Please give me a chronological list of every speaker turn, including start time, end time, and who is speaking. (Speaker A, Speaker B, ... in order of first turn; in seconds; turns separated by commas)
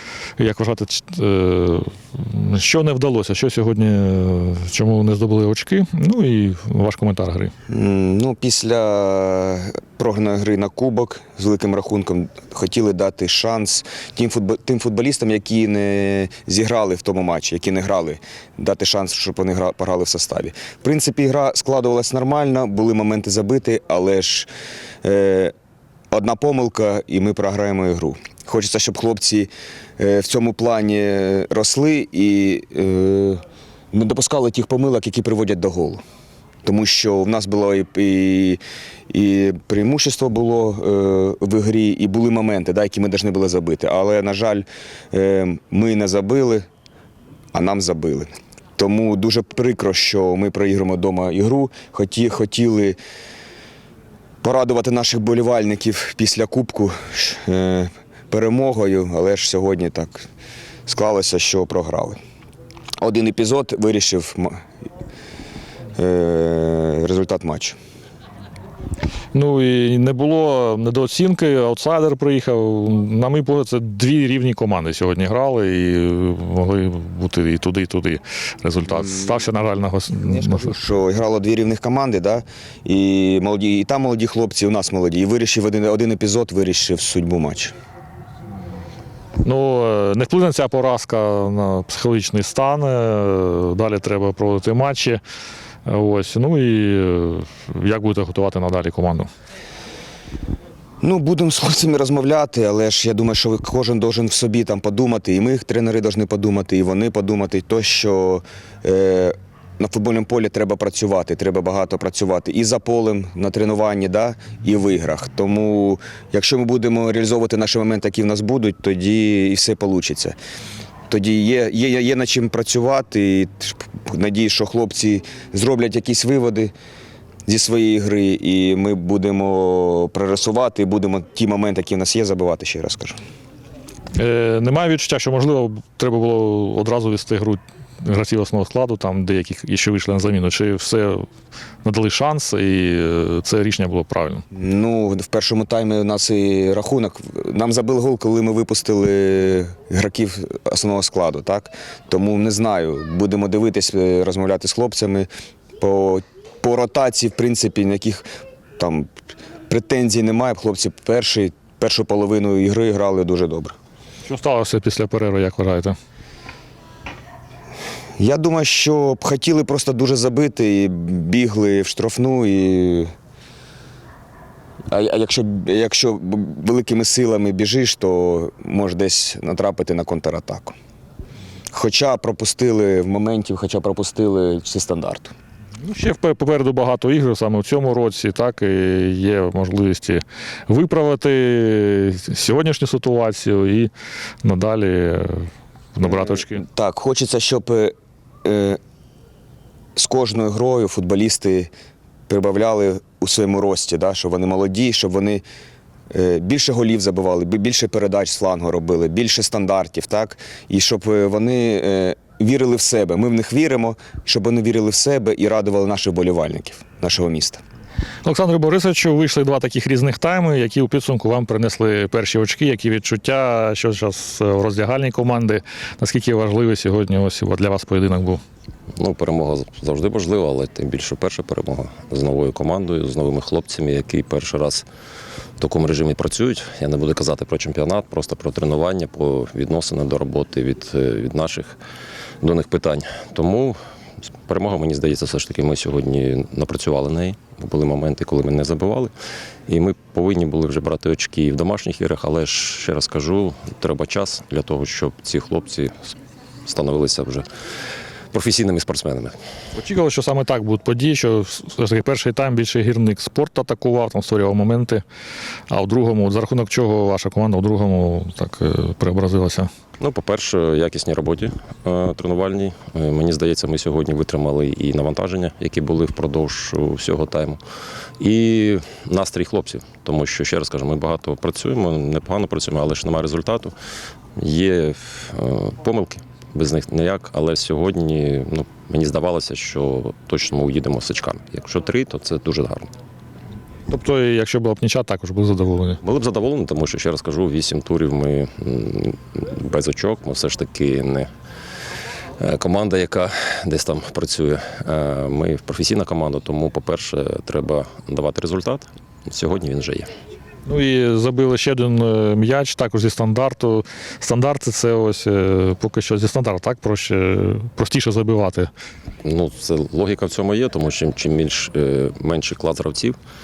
Speaker A: 0.4-7.5, Speaker B: 7.7-24.5, Speaker B: 25.0-25.5, Speaker B: 26.1-36.0, Speaker B: 36.6-46.6, Speaker B: 47.5-53.0, Speaker B: 54.4-60.3, Speaker B: 60.9-62.2, Speaker B: 63.0-64.6, Speaker B: 66.0-67.8, Speaker A: 69.3-80.7, Speaker B: 80.3-87.7, Speaker A: 89.4-95.2, Speaker A: 95.9-99.3, Speaker B: 101.0-120.4, Speaker B: 121.1-126.7, Speaker B: 127.5-133.2, Speaker A: 134.2-141.3, Speaker A: 141.8-144.4, Speaker B: 144.5-155.3, Speaker B: 155.8-158.2, Speaker B: 158.8-159.1, Speaker B: 159.7-163.8, Speaker A: 164.3-166.0, Speaker B: 168.2-173.1, Speaker B: 174.9-180.8, Speaker B: 181.7-185.3, Speaker A: 185.8-193.9, Speaker A: 194.4-196.6, Speaker B: 196.0-198.8, Speaker B: 200.0-201.7, Speaker B: 202.3-205.4, Speaker B: 206.1-217.6, Speaker A: 218.2-228.4, Speaker C: 229.0-234.9, Speaker C: 235.6-241.8, Speaker C: 242.4-243.8, Speaker C: 244.5-249.1, Speaker C: 249.7-257.5, Speaker C: 258.3-259.4, Speaker A: 259.7-265.0, Speaker A: 265.7-269.7, Speaker C: 270.0-277.6, Speaker C: 278.2-283.7, Speaker C: 284.4-292.9, Speaker A: 293.9-296.0, Speaker C: 296.0-301.3, Speaker C: 302.4-310.1, Speaker A: 310.7-318.7, Speaker C: 319.2-323.2